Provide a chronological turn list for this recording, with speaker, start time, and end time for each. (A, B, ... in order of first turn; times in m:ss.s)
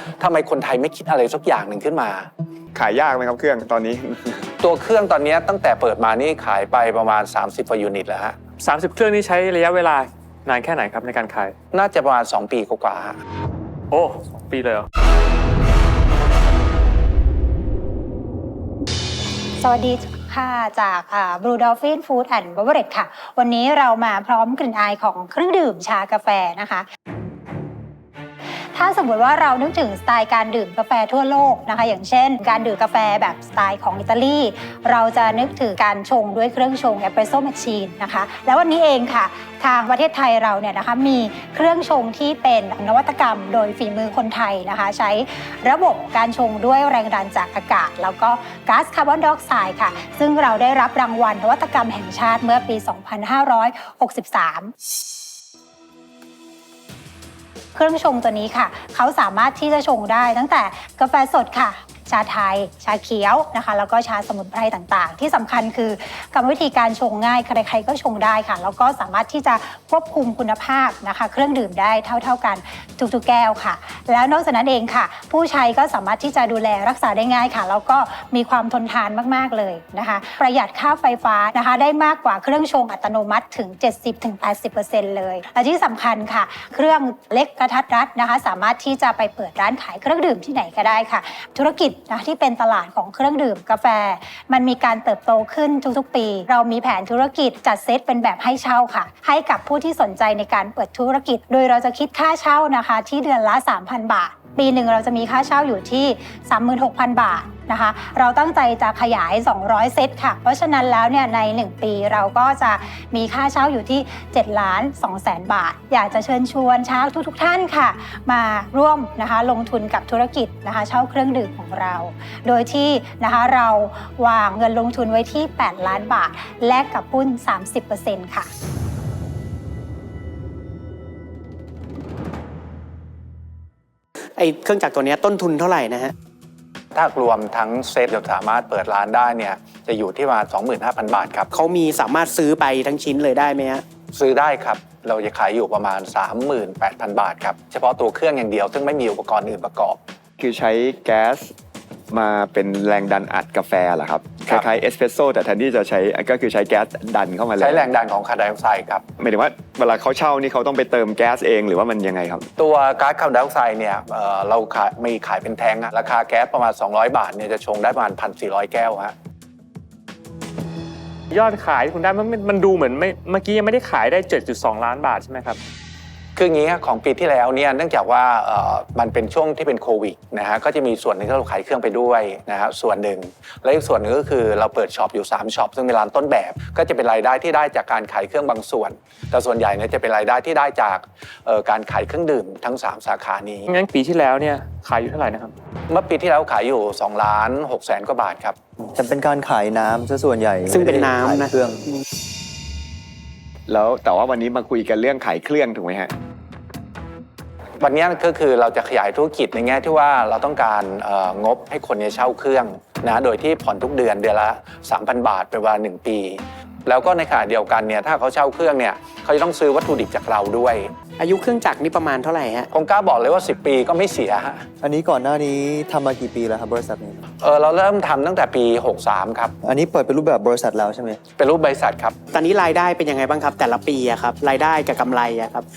0:00.2-0:02.3 A
0:02.7-0:04.5 B
0:04.6-0:08.4 A
0:08.6-0:11.5 C
0:11.7-0:13.2 A
0:13.9-0:14.8 C
0:19.6-0:26.9 D
0:28.7-0:54.7 D
0:57.7-2:08.5 D
2:14.4-2:16.1 E
2:16.9-2:21.5 A
2:21.5-2:23.8 E
2:24.1-2:30.0 A
2:30.4-2:31.5 B
2:32.1-2:37.9 B
2:37.6-2:39.0 A
2:39.2-2:42.5 B
2:42.6-2:49.1 A
2:51.3-2:55.6 C
2:56.4-3:13.7 A
3:13.7-3:15.5 C
3:15.9-3:18.6 A
3:18.9-3:21.8 F
3:20.7-3:21.5 E
3:23.7-3:26.1 B
3:27.8-3:40.9 A
3:41.2-3:42.7 E
3:42.7-3:44.7 A
3:44.8-3:47.2 F
3:47.4-3:49.5 A
3:49.6-3:51.2 F
3:51.4-3:52.1 A
3:52.3-3:55.7 E